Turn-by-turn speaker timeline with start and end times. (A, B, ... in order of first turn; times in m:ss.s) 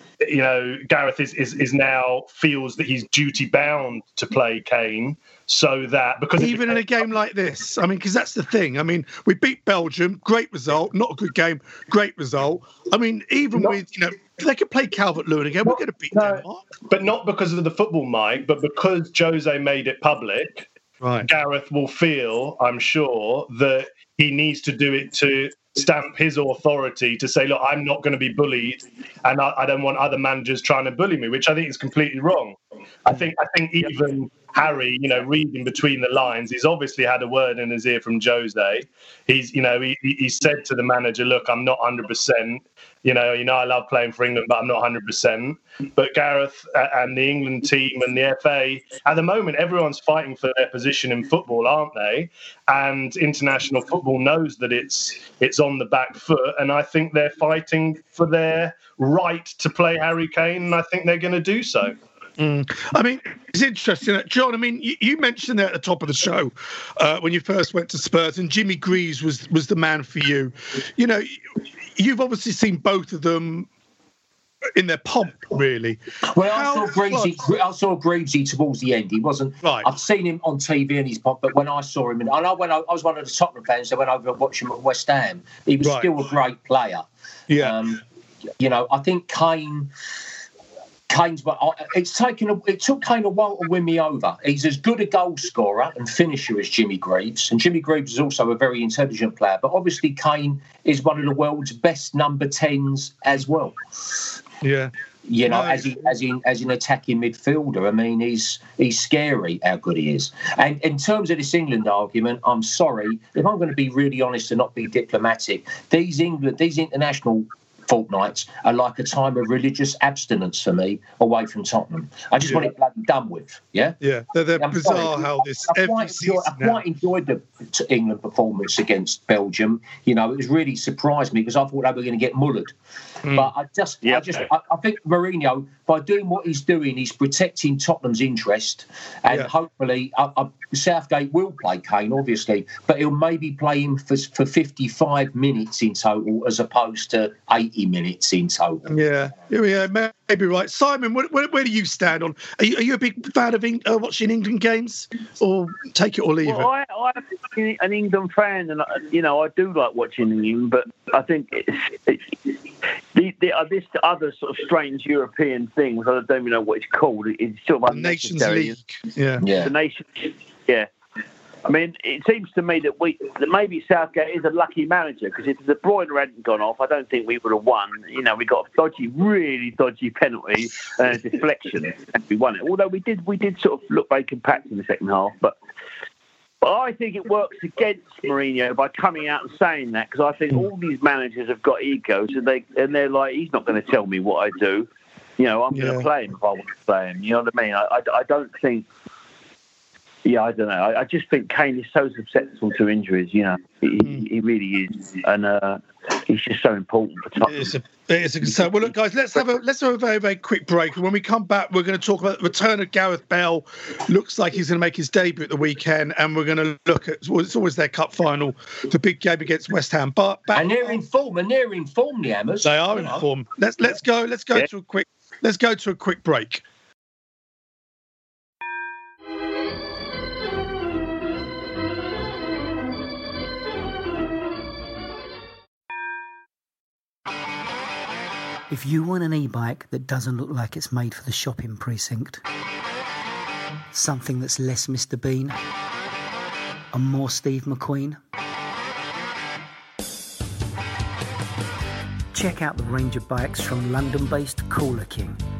0:00.2-0:07.0 A
0:06.4-0:16.7 B
0:15.6-0:20.7 A
0:21.0-0:21.3 B
0:21.2-1:01.9 A
1:02.4-1:11.4 B
1:12.0-1:13.7 B
1:14.8-1:17.4 B
1:16.3-1:27.0 C
1:19.6-1:19.9 B
1:25.8-1:26.1 B
1:27.5-1:27.8 B
1:27.6-1:28.0 C
1:28.6-1:29.9 C
1:31.1-1:44.2 C
1:44.6-1:44.9 B
1:45.2-2:04.0 C
1:45.5-1:46.1 B
2:02.4-2:02.7 B
2:04.0-2:06.8 B
2:04.6-2:12.7 C
2:13.2-2:13.5 B
2:13.3-2:29.1 C
2:14.0-2:14.3 D
2:28.9-2:36.7 B
2:36.4-2:42.3 D
2:43.2-2:48.8 D
2:47.9-2:49.4 B
2:49.4-2:49.7 C
2:49.5-2:50.9 D
2:51.6-3:05.5 D
3:06.6-3:18.9 D
3:15.7-3:16.1 B
3:20.2-3:27.8 D
3:27.4-3:41.0 B
3:28.4-3:28.9 D
3:40.5-3:43.2 C
3:42.6-3:46.6 B
3:58.7-4:02.4 E
4:03.9-4:05.5 E
4:06.9-4:08.2 E
4:12.3-4:15.4 E